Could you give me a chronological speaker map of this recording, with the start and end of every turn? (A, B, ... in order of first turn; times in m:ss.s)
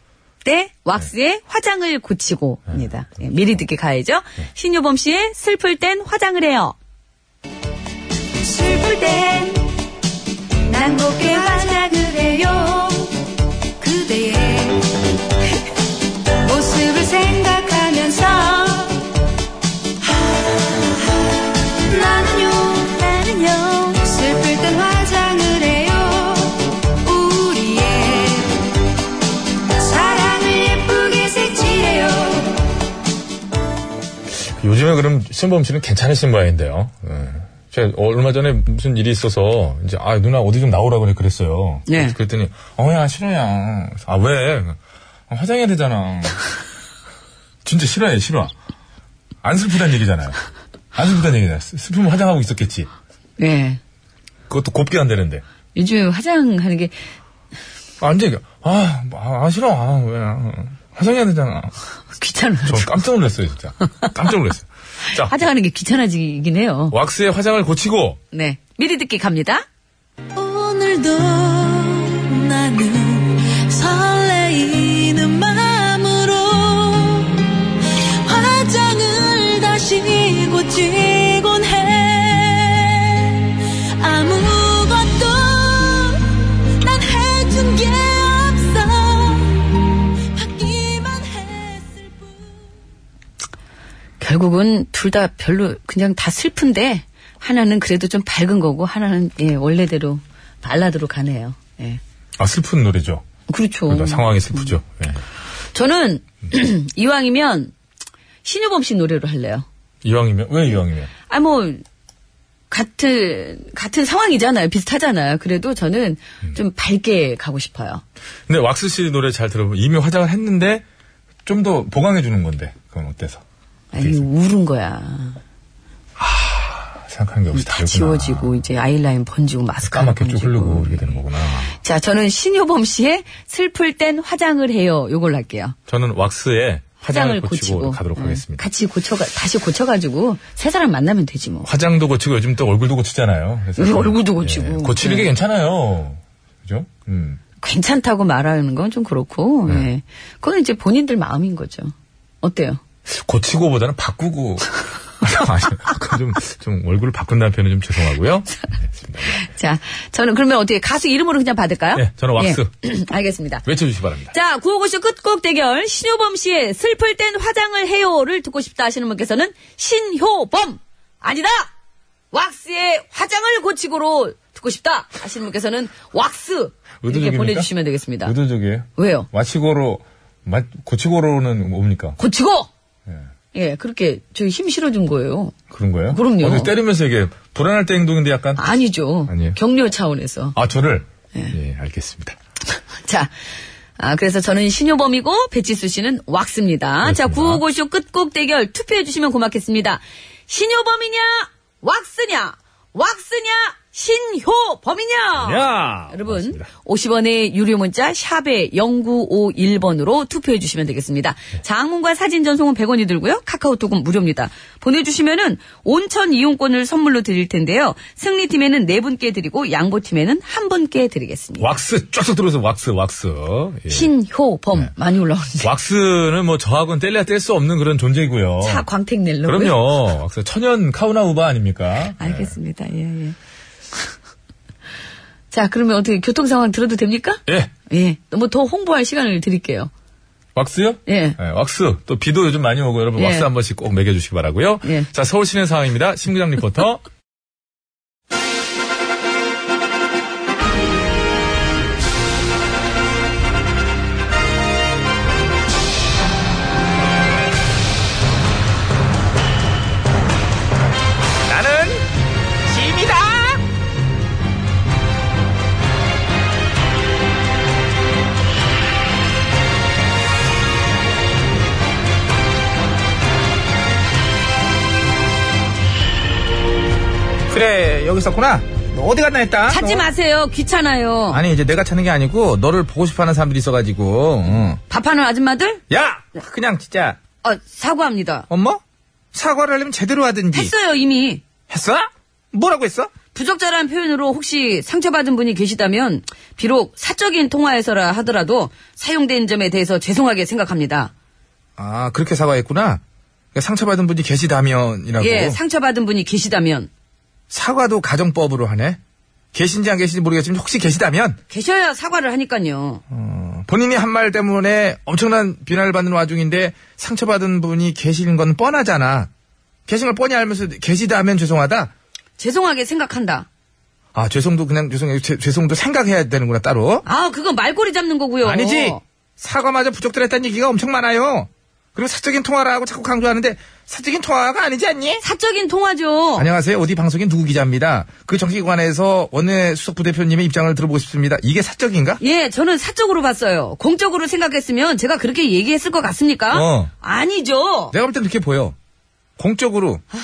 0:00.4-0:06.8 A
0:08.5-0:09.6 A
0:10.7-0:13.0 A
0:13.8-0:14.7 B
0:16.5-0:18.8 B
0:17.7-0:18.7 A
0:21.9-0:26.5 B
0:23.2-0:23.9 A
0:27.1-0:28.5 B
0:29.8-0:32.5 B
0:34.3-0:44.8 C
0:41.9-0:42.2 A
0:45.3-0:46.4 C
0:47.6-0:48.5 C
0:49.4-0:50.4 C
0:50.9-0:52.9 C
0:53.4-0:53.8 A
0:54.5-0:55.4 C
0:55.7-0:56.9 A
0:58.0-1:01.7 C
1:02.2-1:03.0 A
1:02.6-1:05.3 C
1:05.1-1:07.0 A
1:06.9-1:08.2 C
1:08.3-1:09.6 A
1:10.4-1:29.8 B
1:30.3-1:32.6 B
1:34.2-1:42.0 A
1:42.4-1:43.2 C
1:43.5-1:44.7 A
1:43.9-1:45.2 C
1:45.7-1:47.7 A
1:48.4-1:49.6 A
1:50.0-1:51.1 C
1:51.3-1:51.8 A
1:52.7-1:58.0 A
1:58.5-2:00.8 C
2:01.4-2:03.4 C
2:03.9-2:05.4 A
2:04.0-2:04.3 C
2:06.2-2:08.5 C
2:07.5-2:11.2 A
2:09.8-2:11.8 C
2:11.8-2:15.8 A
2:15.9-2:18.6 C
2:17.0-2:21.7 A
2:21.6-2:27.4 C
2:23.8-2:25.3 A
2:27.6-2:32.8 A
2:33.1-2:39.4 C
2:39.3-2:43.6 A
2:41.9-2:42.7 C
2:43.6-2:44.3 C
2:44.3-2:51.7 A
2:52.3-2:58.3 A
2:57.0-2:57.7 C
2:58.2-3:02.2 C
2:59.0-2:59.3 A
3:02.2-3:02.7 A
3:03.5-3:05.5 A
3:05.7-3:08.6 C
3:06.1-3:06.7 A
3:08.6-3:10.6 A
3:09.3-3:09.6 C
3:10.5-3:12.4 C
3:13.0-3:13.3 A
3:14.0-3:41.7 A
3:17.0-3:17.6 C
3:25.4-3:26.7 C
3:41.6-3:44.1 C
3:43.9-3:45.7 A
3:45.6-3:48.8 C
3:48.6-3:49.8 A
3:49.4-3:52.5 C
3:52.2-3:53.4 A
3:55.5-3:59.9 A
3:57.5-3:57.7 C
4:00.5-4:07.0 C
4:01.1-4:01.4 A
4:03.2-4:03.5 A
4:04.8-4:05.1 A
4:21.5-4:22.0 D
4:22.7-4:23.6 D
4:37.5-4:40.0 D
4:39.7-4:41.4 A
4:41.3-4:44.8 D
4:44.9-4:45.8 A
4:45.9-4:47.2 D
4:47.4-4:48.5 A
4:48.5-4:48.8 D
4:49.3-4:50.7 D
4:50.5-4:51.4 A
4:51.7-4:53.1 D
4:53.3-5:01.1 A
5:01.8-5:03.0 D
5:03.5-5:05.6 D
5:05.2-5:06.9 A
5:07.5-5:09.0 D
5:09.5-5:11.4 D
5:11.5-5:13.0 A
5:13.1-5:19.3 D
5:19.9-5:21.9 D
5:22.4-5:23.5 A
5:24.1-5:27.0 D
5:27.0-5:29.0 A
5:28.4-5:35.2 D
5:35.2-5:36.4 A
5:36.4-5:42.2 D
5:42.2-5:47.9 A
5:46.5-5:46.9 D
5:47.9-5:48.7 D
5:49.4-5:50.0 D